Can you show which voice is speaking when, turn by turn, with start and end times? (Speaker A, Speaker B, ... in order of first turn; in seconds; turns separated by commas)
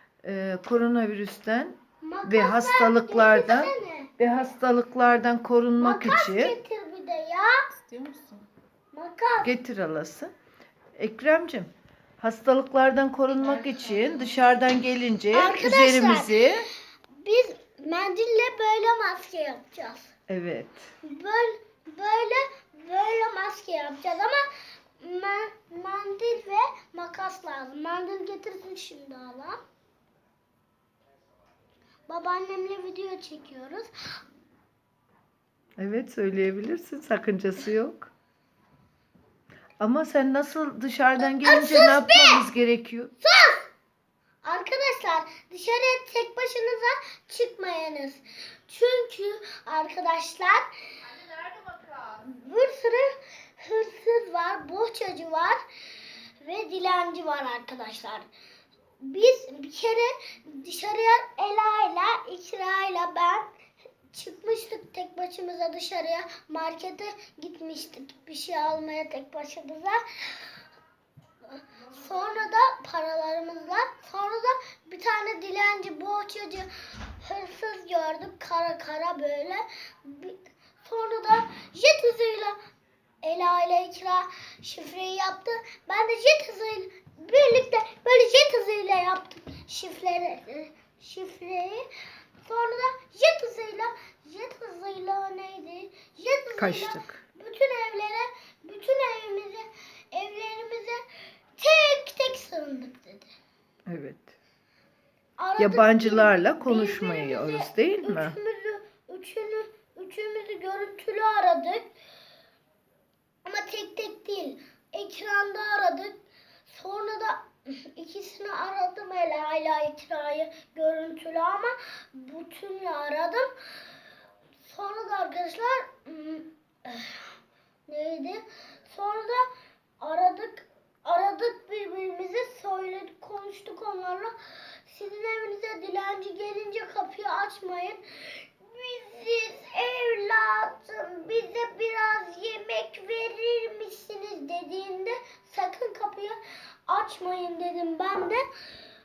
Speaker A: 0.2-6.6, Speaker B: 2.0-4.2, Speaker B: 5.8-7.7, Speaker A: 7.8-8.4, Speaker B: 8.9-9.5, Speaker A: 9.4-10.3, Speaker A: 11.0-16.7, Speaker B: 15.3-16.3, Speaker B: 17.2-20.1, Speaker A: 20.3-20.9, Speaker B: 21.0-24.4, Speaker B: 25.0-29.6, Speaker B: 32.1-34.2, Speaker A: 35.8-38.1, Speaker A: 39.8-43.1, Speaker B: 41.2-42.5, Speaker B: 43.2-43.7, Speaker B: 44.4-50.7, Speaker B: 52.1-55.6, Speaker B: 56.4-58.2, Speaker B: 59.0-63.5, Speaker B: 64.1-70.5, Speaker B: 71.5-82.6, Speaker B: 83.2-91.8, Speaker B: 92.4-101.0, Speaker A: 96.6-97.2, Speaker B: 101.6-103.3, Speaker A: 103.9-104.3, Speaker B: 105.4-111.9, Speaker A: 105.6-108.4, Speaker B: 113.4-116.1, Speaker B: 116.7-123.5, Speaker B: 124.6-127.3, Speaker B: 127.9-129.5, Speaker B: 130.0-134.3, Speaker B: 134.9-148.4